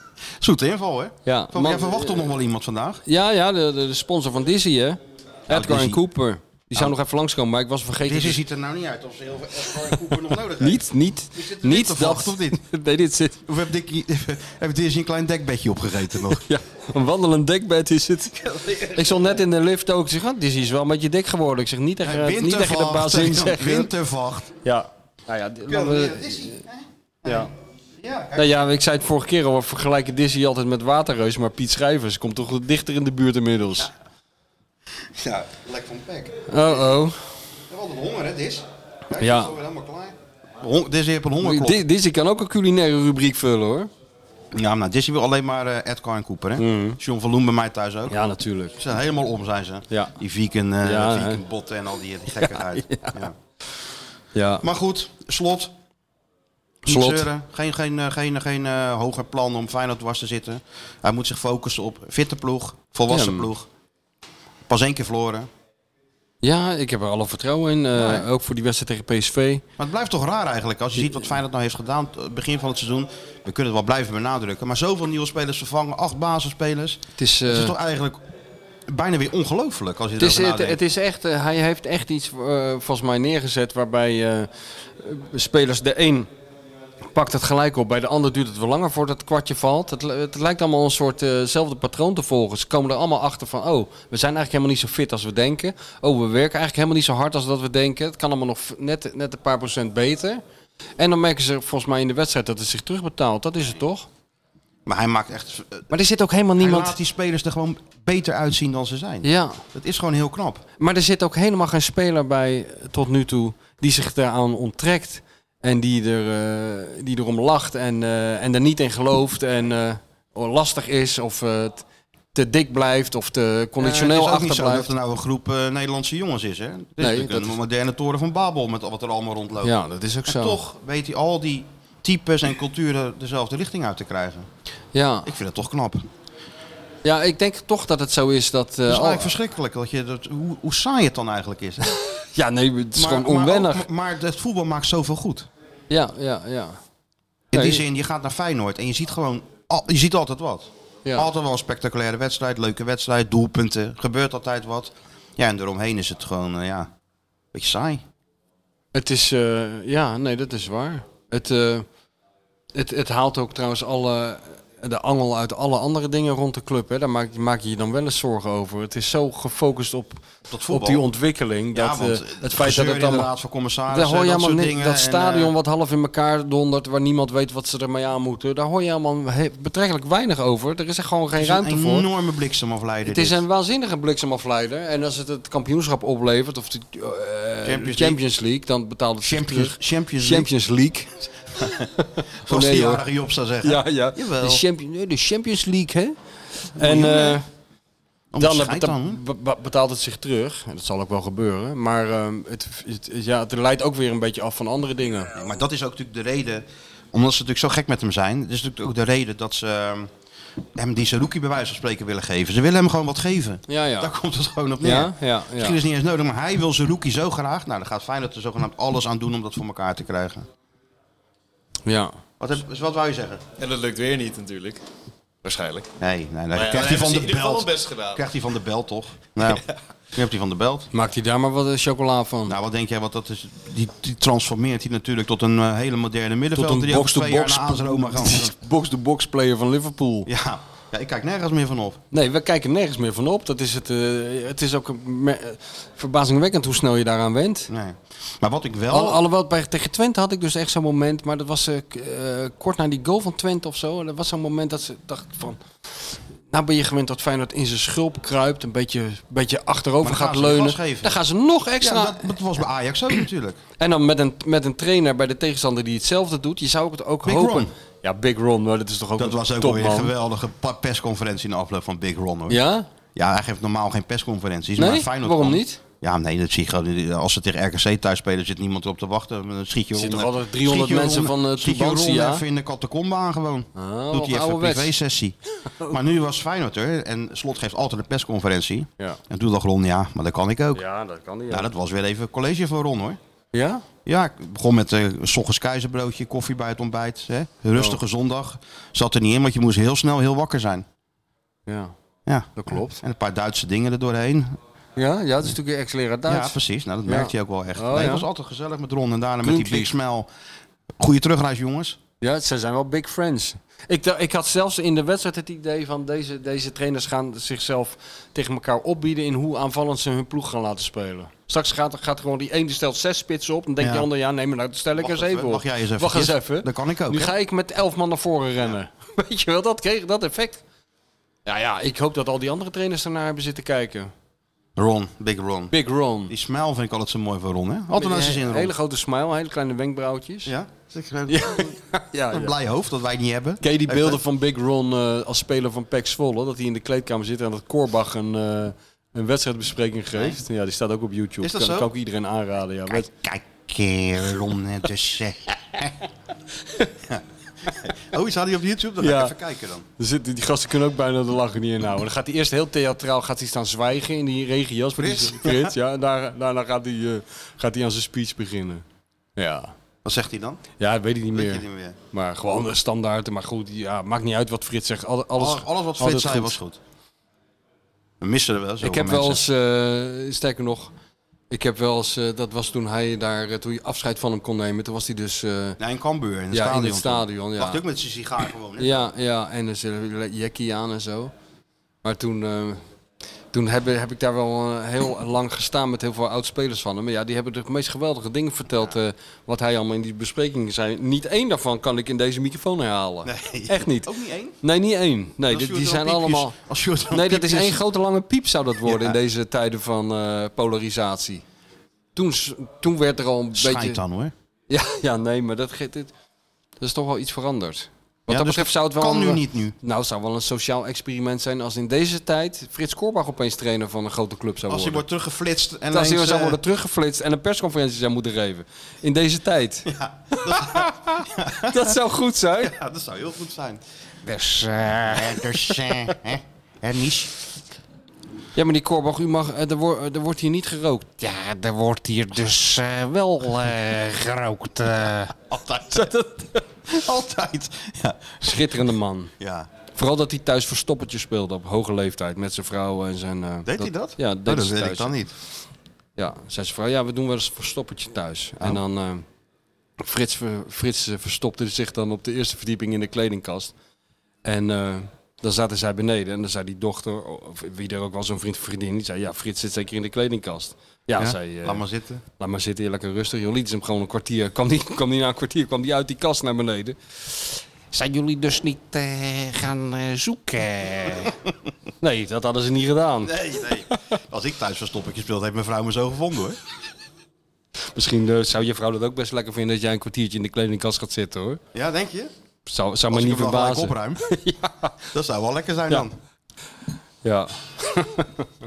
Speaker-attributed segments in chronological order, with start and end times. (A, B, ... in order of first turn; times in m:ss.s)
0:00.4-0:03.0 A
0:01.2-0:02.3 B
0:03.1-0:08.4 B
0:05.5-0:06.0 A
0:08.0-0:12.6 A
0:10.6-0:13.4 B
0:13.5-0:16.4 A
0:16.3-0:23.9 B
0:18.5-0:19.3 A
0:22.0-0:24.6 A
0:24.6-0:26.6 B
0:25.7-0:28.6 A
0:28.4-0:33.9 B
0:35.0-0:36.9 A
0:36.5-0:37.2 B
0:37.7-0:41.8 A
0:39.2-0:39.5 B
0:41.4-0:43.9 B
0:44.5-0:48.2 A
0:46.6-0:47.0 B
0:48.1-0:48.8 B
0:48.8-0:53.4 A
0:50.8-0:51.4 B
0:52.4-0:53.2 B
0:54.4-0:54.6 B
0:54.6-0:55.7 A
0:56.8-0:57.3 B
0:56.8-1:03.7 A
1:03.1-1:03.5 B
1:04.7-1:05.5 A
1:06.4-1:09.6 B
1:08.0-1:08.3 A
1:09.8-1:18.2 A
1:11.0-1:11.3 B
1:17.2-1:17.7 B
1:18.9-1:20.8 A
1:20.2-1:26.3 B
1:27.1-1:40.4 B
1:41.0-1:44.1 B
1:44.9-1:45.9 A
1:45.9-1:47.0 B
1:46.6-1:50.6 A
1:49.2-1:49.6 B
1:50.8-2:04.9 B
2:03.8-2:09.8 A
2:07.0-2:07.6 B
2:09.6-2:10.6 B
2:10.3-2:14.5 A
2:14.9-2:15.3 B
2:15.2-2:16.1 A
2:17.0-2:19.4 B
2:18.9-2:22.0 A
2:22.4-2:23.9 B
2:23.0-2:25.5 A
2:25.9-2:26.8 B
2:27.5-2:36.9 A
2:27.5-2:27.8 B
2:37.5-2:38.0 A
2:38.9-2:41.9 B
2:42.7-2:53.3 B
2:50.5-2:51.1 A
2:51.7-2:55.5 A
2:53.9-3:02.1 B
3:01.4-3:03.4 A
3:03.1-3:13.0 B
3:07.6-3:08.2 A
3:09.2-3:10.5 A
3:11.6-3:11.9 A
3:12.4-3:14.6 A
3:13.6-3:17.5 B
3:16.8-3:17.4 A
3:18.3-3:19.2 A
3:18.4-3:25.3 B
3:25.3-3:30.1 A
3:30.8-3:40.5 A
3:33.7-3:34.1 B
3:34.8-3:35.8 B
3:41.9-3:42.2 B
3:42.4-3:43.4 A
3:43.6-3:44.8 C
3:45.4-3:45.9 C
3:46.0-3:50.9 A
3:46.5-3:48.2 C
3:50.9-3:52.6 B
3:52.5-3:58.5 A
3:56.6-4:00.3 B
4:00.3-4:02.0 A
4:02.1-4:07.7 B
4:07.7-4:09.2 A
4:08.9-4:22.3 B
4:20.0-4:21.2 A
4:21.8-4:23.6 A
4:23.8-4:30.1 B
4:27.2-4:27.7 A
4:29.2-4:32.6 A
4:32.5-4:32.9 B
4:33.2-4:50.8 A
4:34.8-4:35.8 B
4:40.0-4:42.4 B
4:43.8-4:44.9 B
4:45.7-4:46.0 B
4:50.7-4:51.7 B
4:51.5-4:53.2 A
4:53.5-4:53.8 B
4:54.1-5:00.8 A
4:57.7-4:58.0 B
5:01.7-5:02.0 B
5:02.3-5:04.6 A
5:02.6-5:03.0 B
5:05.0-5:08.2 B
5:06.3-5:10.3 A
5:09.4-5:09.9 B
5:11.0-5:12.0 A
5:12.2-5:30.6 B
5:23.8-5:24.1 A
5:25.0-5:27.3 A
5:31.5-5:34.1 B
5:34.8-5:35.7 A
5:35.7-5:36.3 B
5:36.3-5:38.7 A
5:38.0-5:40.5 B
5:40.4-5:41.8 A
5:41.3-5:42.5 B
5:42.3-5:44.2 A
5:43.6-5:53.1 B
5:51.4-5:51.9 A
5:52.9-5:56.0 A
5:57.1-5:59.9 A
5:59.0-5:59.3 B
6:00.0-6:08.8 B
6:05.0-6:05.7 A
6:09.4-6:09.7 B
6:10.0-6:10.6 A
6:10.8-6:16.6 B
6:11.3-6:12.0 A
6:15.4-6:16.8 A
6:18.2-6:19.5 A
6:18.8-6:20.9 B
6:21.5-6:25.8 B
6:25.8-6:29.1 A
6:26.5-6:27.8 B
6:28.8-6:31.3 B
6:32.0-6:32.8 B
6:33.5-6:44.1 B
6:43.2-6:44.6 A
6:44.6-6:46.6 B
6:45.5-6:47.8 A
6:47.1-6:51.4 B
6:48.8-6:49.2 A
6:52.2-6:54.0 B
6:53.6-6:54.3 A
6:54.7-6:56.1 B
6:56.8-7:05.0 B
6:58.3-6:59.8 A
7:04.7-7:06.6 A
7:05.9-7:12.7 B
7:09.9-7:12.0 A
7:12.6-7:13.8 A
7:14.2-7:16.1 B
7:15.0-7:17.3 A
7:18.6-7:25.3 B
7:25.5-7:26.2 A
7:25.9-7:26.6 B
7:26.9-7:28.8 A
7:28.4-7:29.3 B
7:29.4-7:29.7 A
7:30.0-7:35.1 B
7:33.6-7:35.3 A
7:36.2-7:39.2 B
7:40.0-7:43.7 B
7:44.4-7:51.8 B
7:51.2-7:52.2 A
7:52.4-8:01.3 B
8:02.0-8:03.7 B
8:03.2-8:06.6 A
8:08.0-8:11.6 B
8:11.7-8:12.3 A
8:12.7-8:14.9 B
8:13.1-8:14.2 A
8:15.1-8:16.2 A
8:17.2-8:18.4 B